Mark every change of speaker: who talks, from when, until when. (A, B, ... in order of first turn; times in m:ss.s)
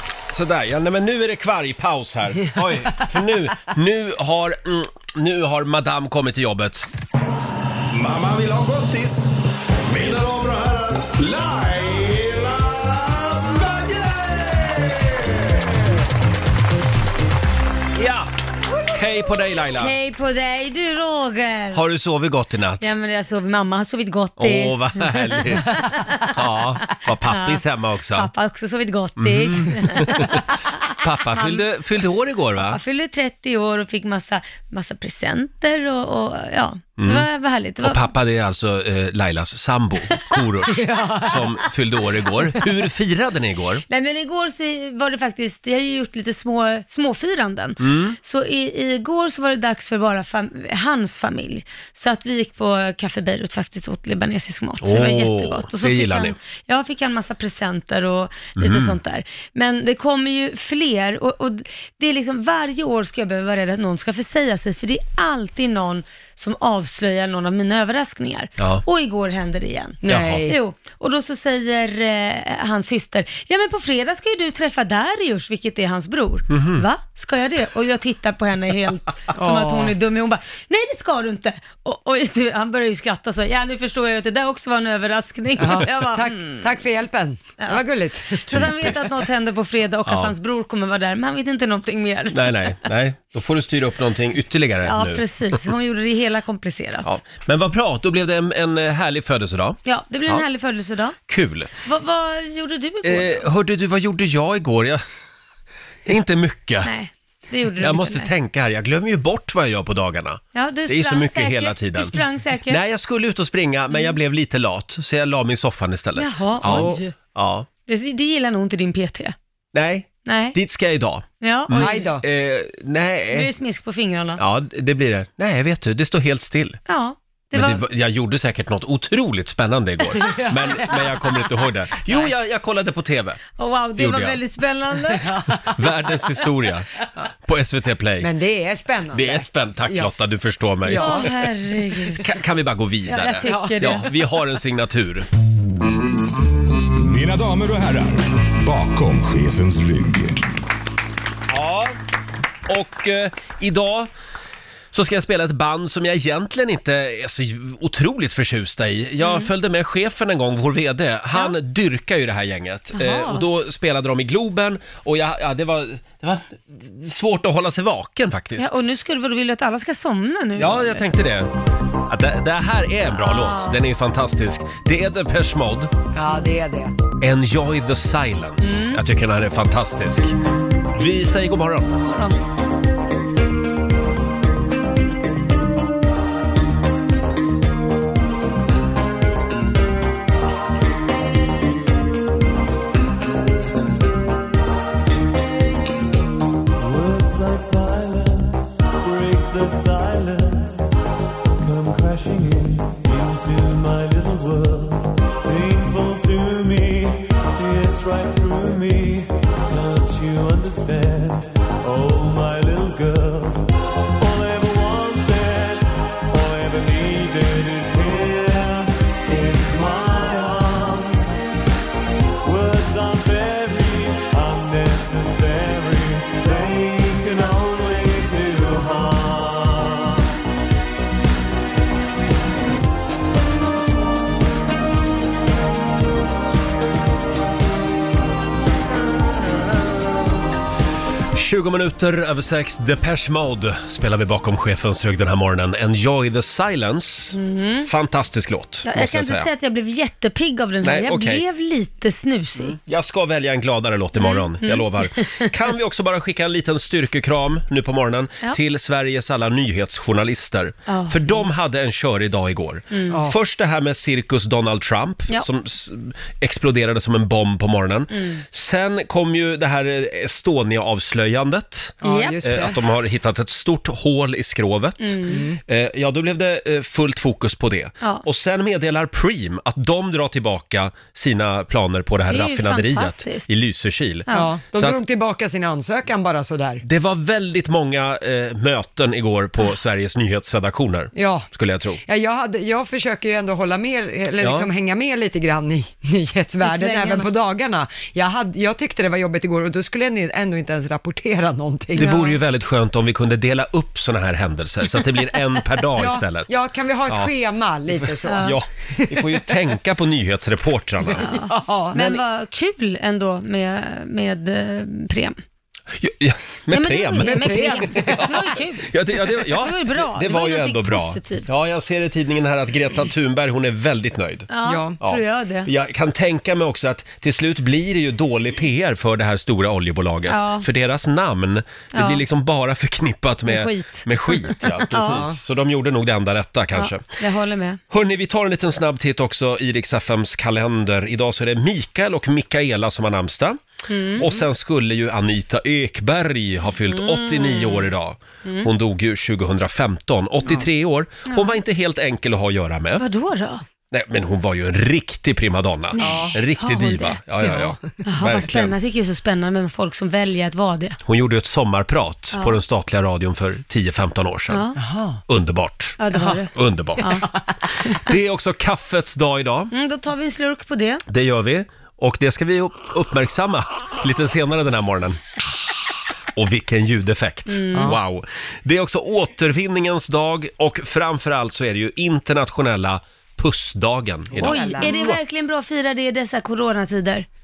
0:00.3-0:06.9 A
0:07.9-0:09.3 B
0:09.9-0:16.0 B
0:18.0-0:18.3 A
0:18.9-0:19.9 A
0:19.8-0:21.8 C
0:21.7-0:22.9 A
0:22.8-0:26.4 C
0:24.4-0:28.3 A
0:26.9-0:27.6 C
0:28.1-0:30.6 C
0:29.2-0:32.8 A
0:31.3-0:31.6 C
0:32.7-0:38.1 C
0:37.0-0:37.3 A
0:37.8-0:43.8 A
0:40.6-0:41.4 D
0:43.9-1:26.7 C
0:47.8-0:48.2 A
0:54.8-0:56.3 A
0:58.6-0:59.0 A
1:10.0-1:10.6 D
1:10.0-1:10.5 A
1:16.5-1:16.8 A
1:19.4-1:19.9 D
1:25.6-1:29.0 D
1:28.3-1:32.6 C
1:28.5-1:29.1 A
1:30.0-1:30.3 A
1:32.3-1:35.6 A
1:34.8-1:37.1 C
1:37.0-1:40.4 A
1:39.8-1:41.2 C
1:41.3-1:41.7 A
1:41.8-1:43.4 C
1:43.0-1:45.0 A
1:46.0-1:46.9 A
1:46.8-1:48.3 C
1:47.8-1:52.1 A
1:50.5-1:52.8 C
1:52.7-1:57.7 A
1:56.2-1:57.1 C
1:56.6-1:57.0 D
1:57.9-1:59.3 C
1:59.7-2:03.5 A
2:00.2-2:00.6 C
2:01.4-2:02.0 C
2:01.8-2:02.2 D
2:03.3-2:04.4 C
2:04.4-2:06.8 A
2:06.9-2:07.8 C
2:07.5-2:13.4 A
2:10.2-2:11.2 D
2:13.6-2:15.4 C
2:14.0-2:14.4 A
2:15.3-2:15.6 D
2:15.7-2:16.9 A
2:17.4-2:18.3 A
2:18.2-2:20.1 D
2:19.1-2:21.3 A
2:20.8-2:21.3 D
2:20.9-2:22.2 C
2:22.2-2:25.3 A
2:23.1-2:24.1 C
2:23.4-2:24.0 D
2:27.0-2:30.4 B
2:31.5-2:31.9 A
2:32.7-2:34.1 A
2:34.9-2:48.7 A
2:39.2-2:39.5 C
2:42.9-2:43.4 C
2:48.6-2:51.0 C
2:50.6-2:51.5 A
2:52.1-2:55.9 A
2:53.1-2:53.8 C
2:56.1-2:56.9 D
2:57.2-3:00.3 A
2:58.6-2:59.0 C
3:00.9-3:02.0 A
3:02.0-3:02.4 C
3:16.8-3:21.0 E
3:21.6-3:41.4 E
3:42.4-3:50.2 E
4:01.3-4:09.5 A
4:07.3-4:07.9 C
4:08.8-4:12.8 C
4:10.8-4:11.4 A
4:12.6-4:45.0 A
4:14.2-4:15.5 C
4:20.9-4:21.4 C
4:22.9-4:23.2 C
4:23.1-4:23.4 D
4:28.1-4:28.4 C
4:32.0-4:32.7 D
4:32.0-4:32.5 C
4:35.0-4:35.4 C
4:35.2-4:35.6 D
4:42.3-4:43.5 C
4:44.3-4:46.8 D
4:46.8-4:52.0 A
4:51.1-4:51.5 D
4:52.0-5:02.2 D
4:54.4-4:54.7 A
4:56.6-4:57.3 C
5:02.0-5:07.3 A
5:02.0-5:02.4 C
5:06.0-5:09.4 D
5:07.9-5:11.2 A
5:08.3-5:08.6 C
5:11.0-5:12.0 D
5:11.2-5:15.4 C
5:15.9-5:24.5 A
5:16.7-5:21.5 C
5:17.2-5:18.3 D
5:24.5-5:25.7 C
5:24.6-5:25.0 D
5:25.0-5:37.0 A
5:30.3-5:30.6 C
5:31.9-5:32.2 C
5:33.5-5:35.2 C
5:35.0-5:35.4 D
5:36.7-5:37.8 C
5:37.9-5:43.6 A
5:43.9-5:44.2 C
5:44.2-5:53.0 A
5:46.9-5:47.9 C
5:48.4-5:48.7 C
5:51.3-5:51.6 C
5:53.0-5:53.6 C
5:53.9-5:58.7 A
5:56.0-5:57.2 C
5:56.0-5:56.4 D
5:57.4-5:57.8 D
5:58.0-6:01.0 C
6:01.0-6:04.7 A
6:04.5-6:04.8 C
6:04.8-6:05.2 D
6:05.3-6:07.1 A
6:06.0-6:07.2 C
6:08.0-6:09.7 A
6:09.7-6:11.0 C
6:11.1-6:15.2 A
6:16.4-6:25.0 A
6:17.5-6:17.9 C
6:24.4-6:25.2 D
6:24.4-6:27.3 C